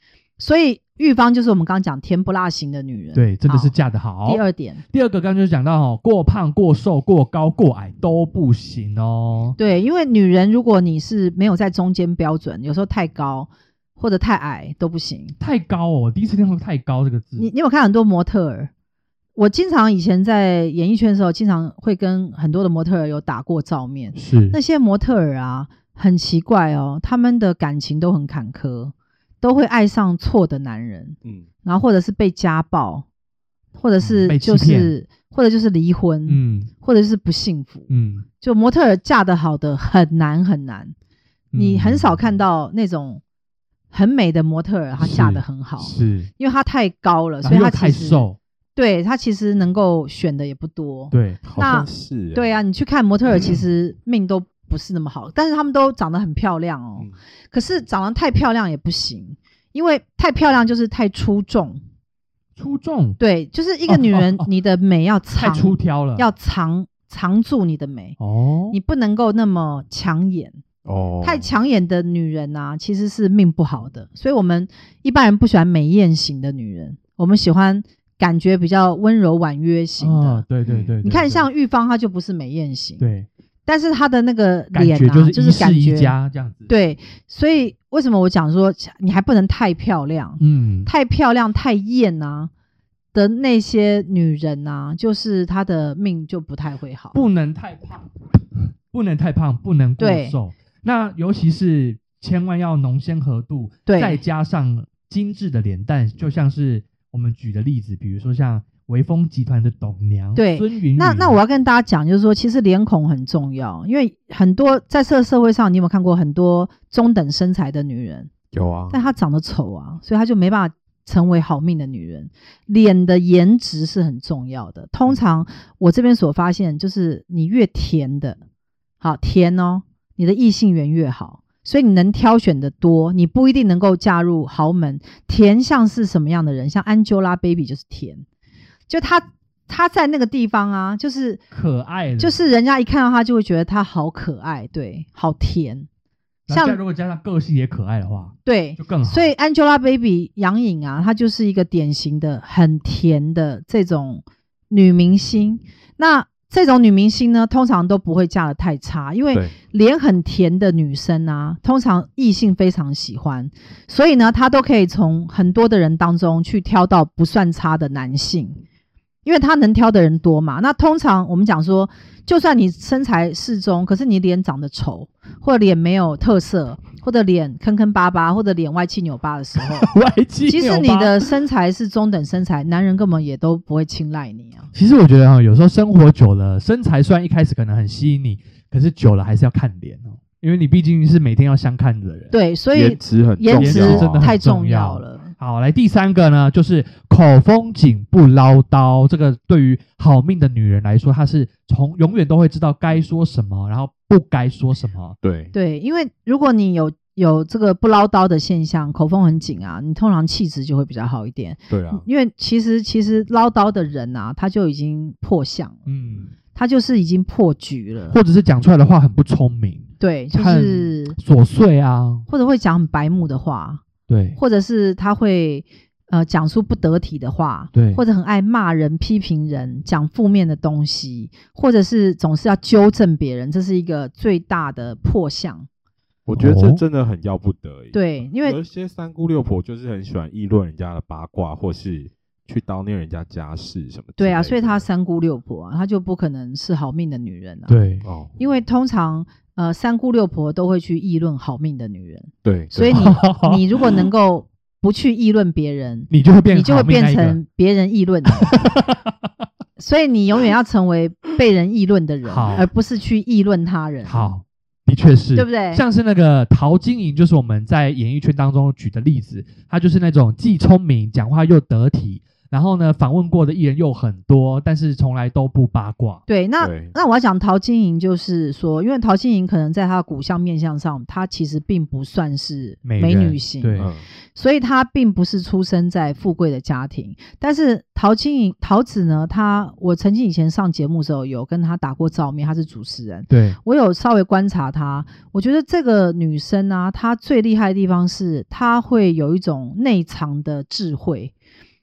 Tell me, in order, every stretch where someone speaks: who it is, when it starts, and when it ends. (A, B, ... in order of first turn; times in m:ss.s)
0:00.4-0:03.7 A
0:03.2-0:09.6 B
0:04.2-0:04.8 A
0:09.6-0:15.4 A
0:15.4-0:17.5 B
0:17.4-0:18.7 A
0:19.4-0:33.0 A
0:24.2-0:24.6 B
0:33.8-0:40.9 A
0:34.0-0:34.9 B
0:36.3-0:36.7 B
0:37.9-0:38.3 B
0:41.5-0:42.3 B
0:41.6-0:43.2 A
0:43.9-0:48.2 A
0:45.0-0:46.3 B
0:47.4-0:48.4 B
0:48.8-1:01.8 A
0:51.1-0:51.4 B
0:51.4-0:52.5 C
1:02.6-1:03.2 B
1:03.2-1:08.2 A
1:03.9-1:04.5 B
1:05.3-1:06.2 B
1:08.2-1:08.8 B
1:08.7-1:10.6 A
1:10.8-1:11.5 C
1:11.2-1:20.4 A
1:20.0-1:21.5 B
1:20.7-1:20.9 C
1:21.0-1:23.0 A
1:23.0-1:23.3 B
1:23.7-1:26.1 A
1:24.7-1:26.7 B
1:26.7-1:32.5 A
1:30.4-1:30.9 B
1:33.1-1:37.2 A
1:37.1-1:38.1 B
1:38.9-1:51.4 B
1:40.0-1:40.4 A
1:43.9-1:44.2 A
1:50.4-1:58.3 A
1:58.5-1:59.0 C
1:58.9-2:08.4 A
2:09.0-2:18.2 A
2:18.9-2:21.4 A
2:21.5-2:22.4 B
2:22.2-2:25.9 A
2:26.5-2:29.3 B
2:26.5-2:26.8 A
2:28.4-2:48.6 A
2:49.2-2:59.9 A
2:59.6-3:01.3 B
3:00.5-3:04.7 A
3:04.7-3:12.3 B
3:12.3-3:15.3 A
3:12.7-3:14.3 C
3:13.6-3:25.2 B
3:25.2-3:25.5 C
3:25.5-3:35.8 A
3:31.7-3:32.0 C
3:35.9-3:36.3 B
3:36.6-3:38.2 A
3:38.1-3:42.3 B
3:40.0-3:41.2 A
3:42.3-3:43.8 A
3:44.1-3:44.4 B
3:44.4-3:55.7 A
3:47.7-3:48.0 B
3:56.3-4:04.8 C
3:56.3-3:56.8 B
3:57.9-3:58.6 A
4:04.2-4:07.8 A
4:07.7-4:08.0 B
4:08.0-4:08.4 C
4:08.4-4:18.5 A
4:12.4-4:13.1 C
4:12.9-4:13.6 B
4:16.1-4:17.4 B
4:18.4-4:19.1 B
4:19.8-4:24.3 A
4:22.2-4:22.7 B
4:24.0-4:36.2 B
4:25.4-4:25.8 A
4:36.3-4:43.8 A
4:36.6-4:36.9 C
4:42.8-4:43.9 B
4:43.8-4:44.0 C
4:44.4-5:01.3 A
4:53.3-4:53.6 B